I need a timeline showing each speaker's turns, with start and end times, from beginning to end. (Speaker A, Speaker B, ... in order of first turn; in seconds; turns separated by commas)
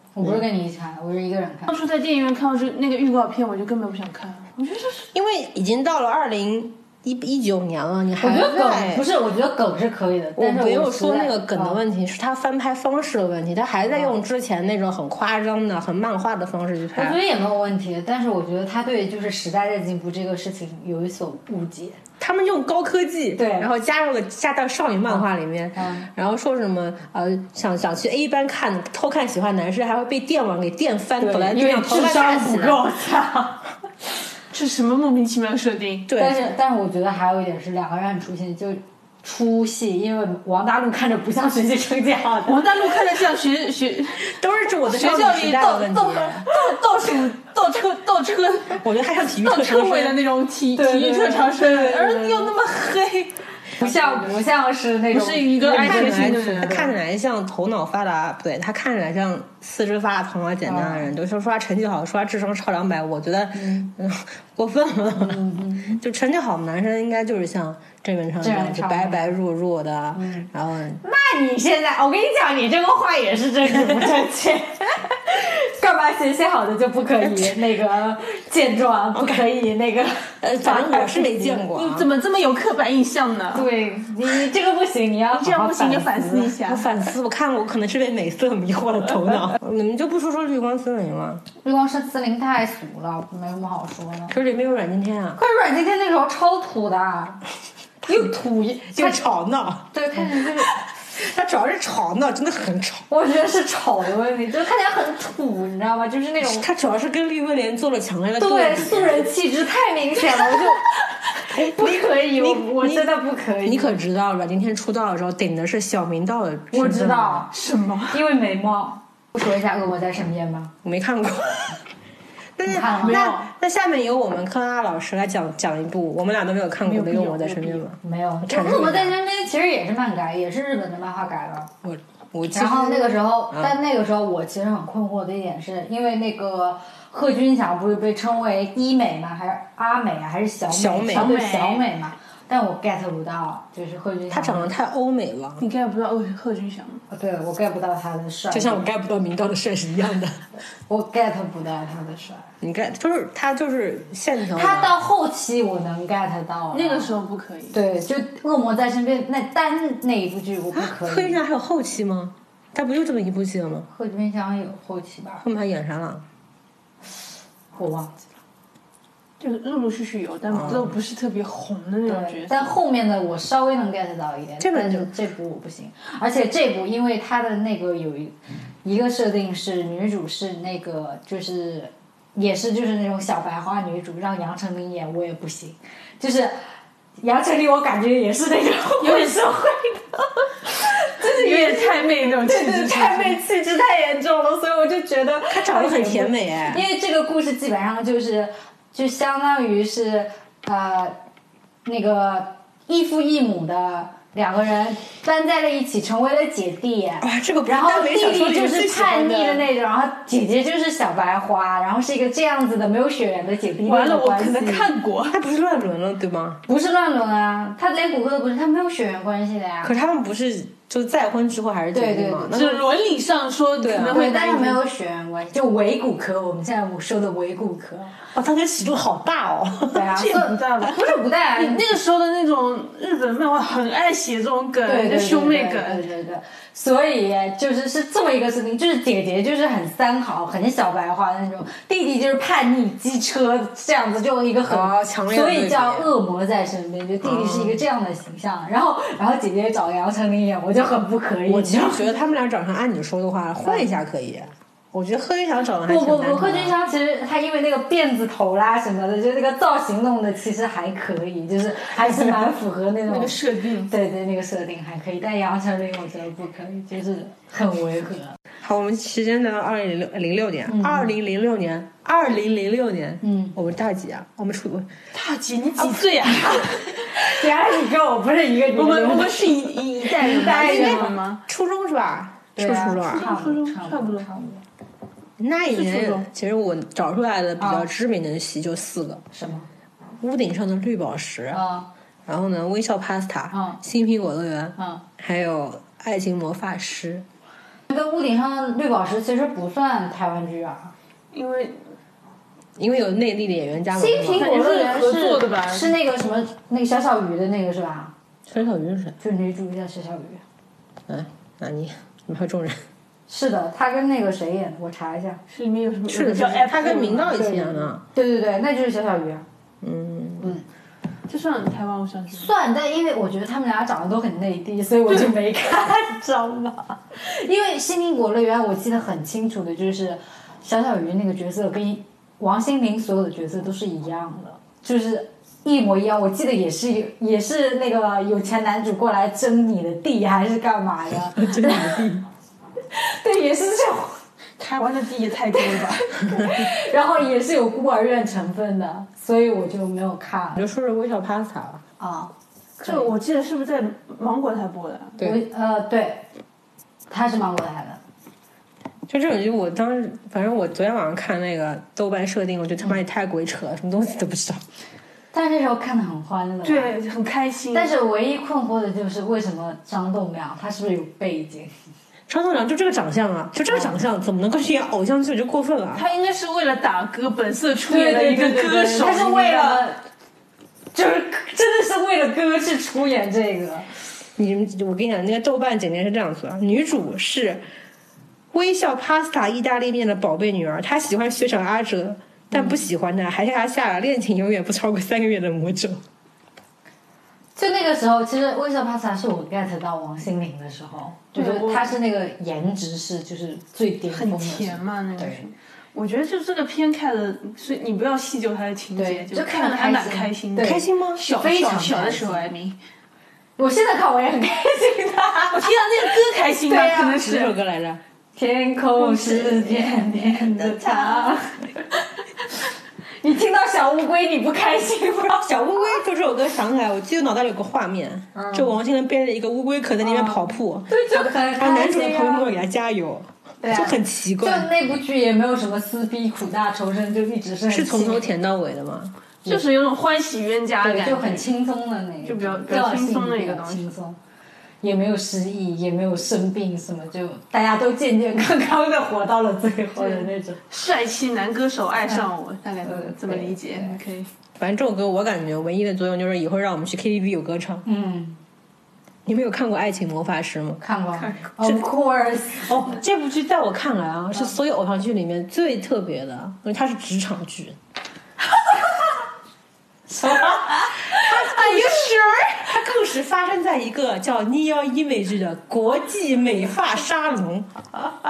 Speaker A: 0.1-1.7, Speaker B: 1.7-5.1, Speaker C: 5.1-9.1, Speaker A: 8.2-11.8, Speaker C: 10.3-17.2, Speaker A: 16.9-22.0, Speaker C: 22.2-32.8, Speaker A: 23.4-23.7, Speaker A: 25.1-26.1, Speaker A: 31.2-33.7, Speaker B: 34.5-36.1, Speaker C: 36.1-36.4, Speaker A: 36.1-42.7, Speaker B: 42.5-54.4, Speaker C: 44.2-46.5, Speaker C: 48.8-50.2, Speaker A: 50.7-52.5, Speaker A: 53.8-56.9, Speaker B: 55.1-56.9, Speaker C: 55.8-71.0, Speaker A: 60.6-61.1, Speaker A: 63.5-63.9, Speaker A: 65.2-66.0, Speaker A: 68.4-69.4, Speaker A: 70.1-70.5, Speaker A: 71.0-81.6, Speaker C: 73.8-74.2, Speaker C: 77.2-77.6, Speaker C: 79.1-79.4, Speaker C: 80.4-82.1, Speaker B: 81.6-83.7, Speaker A: 83.5-86.5, Speaker B: 85.3-86.8, Speaker C: 86.6-91.4, Speaker A: 91.6-94.4, Speaker C: 94.3-95.4, Speaker A: 95.4-97.4, Speaker A: 98.0-99.2, Speaker C: 98.9-99.9, Speaker A: 99.9-100.8, Speaker C: 101.1-103.0, Speaker A: 103.1-106.7, Speaker C: 106.4-109.3, Speaker A: 108.4-110.9, Speaker A: 111.4-114.0, Speaker C: 111.5-113.1, Speaker C: 113.6-117.5, Speaker A: 116.7-117.5, Speaker B: 117.5-118.2, Speaker A: 118.1-120.7, Speaker C: 120.8-121.8, Speaker C: 122.6-129.2, Speaker A: 122.7-123.3, Speaker B: 123.0-123.5, Speaker B: 126.8-127.8, Speaker A: 128.0-131.8, Speaker C: 131.8-133.7, Speaker A: 132.5-144.7, Speaker C: 140.7-141.3, Speaker B: 141.1-141.9, Speaker C: 144.3-145.6, Speaker B: 145.6-147.0, Speaker A: 147.1-148.8, Speaker C: 148.5-150.4, Speaker A: 150.9-152.5, Speaker C: 152.6-154.9, Speaker A: 154.5-157.1, Speaker B: 156.7-157.8, Speaker A: 157.7-161.4, Speaker C: 160.7-163.9, Speaker A: 163.9-165.4, Speaker C: 165.4-166.2, Speaker A: 167.8-168.2, Speaker B: 169.4-172.7, Speaker C: 170.5-170.9, Speaker A: 172.1-186.5, Speaker C: 174.6-175.1, Speaker A: 187.2-201.2, Speaker B: 189.0-189.7, Speaker B: 191.2-193.4, Speaker C: 195.5-196.8, Speaker A: 201.8-214.9, Speaker C: 207.2-209.7, Speaker B: 213.8-215.4, Speaker C: 215.3-216.6, Speaker A: 216.7-219.9, Speaker C: 219.8-222.8, Speaker A: 221.9-222.6, Speaker B: 222.5-224.8, Speaker C: 223.8-224.2, Speaker A: 224.0-228.1, Speaker C: 228.3-230.1, Speaker A: 229.9-231.9, Speaker B: 230.1-236.0, Speaker A: 234.8-252.1, Speaker C: 244.7-246.1, Speaker C: 247.2-247.8, Speaker C: 251.4-256.7, Speaker A: 253.6-253.9, Speaker A: 255.8-263.4, Speaker B: 263.1-263.9, Speaker A: 263.9-268.4, Speaker C: 268.6-274.9, Speaker A: 270.7-271.1, Speaker A: 273.2-273.5, Speaker B: 275.1-277.2, Speaker C: 275.8-276.1, Speaker A: 276.3-281.1, Speaker B: 278.7-281.4, Speaker C: 280.3-283.3, Speaker A: 282.6-284.6, Speaker B: 283.0-284.3, Speaker C: 285.4-289.2, Speaker B: 285.7-286.3, Speaker A: 287.6-287.9, Speaker A: 289.3-289.7, Speaker C: 290.2-291.6, Speaker A: 291.5-291.9, Speaker C: 292.2-297.2, Speaker A: 293.5-293.8, Speaker A: 294.8-295.0, Speaker A: 297.9-300.9, Speaker B: 301.3-301.8, Speaker C: 302.8-304.5, Speaker A: 303.9-308.1, Speaker B: 304.3-305.9, Speaker C: 308.5-309.2, Speaker A: 309.2-310.4, Speaker C: 311.1-312.8, Speaker A: 313.3-315.4, Speaker B: 315.5-317.4, Speaker C: 316.1-318.0, Speaker A: 317.3-319.4, Speaker C: 319.8-320.5, Speaker B: 321.3-322.5, Speaker A: 322.3-342.2, Speaker C: 341.4-342.1, Speaker A: 342.9-344.2, Speaker B: 344.6-346.4, Speaker A: 345.5-350.6, Speaker C: 350.6-351.8, Speaker A: 352.0-353.1, Speaker B: 352.8-355.2, Speaker A: 355.2-356.2, Speaker A: 357.1-358.0, Speaker C: 359.1-364.6, Speaker A: 365.3-366.9, Speaker B: 366.6-367.9, Speaker A: 367.7-371.7, Speaker C: 372.3-376.1, Speaker A: 373.7-374.0, Speaker B: 375.9-379.9, Speaker A: 377.9-380.0, Speaker A: 380.9-383.9, Speaker C: 384.4-387.6, Speaker C: 388.5-396.0, Speaker A: 397.6-405.4, Speaker B: 401.3-401.9, Speaker B: 404.1-412.8, Speaker A: 408.9-412.4, Speaker C: 410.6-411.2, Speaker A: 413.6-415.9, Speaker B: 415.5-417.5, Speaker C: 416.6-418.0, Speaker A: 418.4-421.9, Speaker B: 419.1-419.7, Speaker A: 423.2-425.5, Speaker C: 425.3-434.7, Speaker A: 428.3-428.8, Speaker A: 430.0-432.6, Speaker A: 433.6-438.2, Speaker C: 437.7-439.1, Speaker B: 439.4-441.5, Speaker A: 440.8-444.2, Speaker B: 442.2-443.9, Speaker A: 444.8-450.6, Speaker B: 450.0-454.3, Speaker A: 452.8-454.0, Speaker C: 454.6-457.8, Speaker A: 457.9-458.4, Speaker C: 459.2-460.8, Speaker A: 460.8-462.9, Speaker C: 461.6-461.9, Speaker C: 462.6-467.8, Speaker A: 470.2-472.2, Speaker C: 470.2-477.7, Speaker B: 471.1-472.1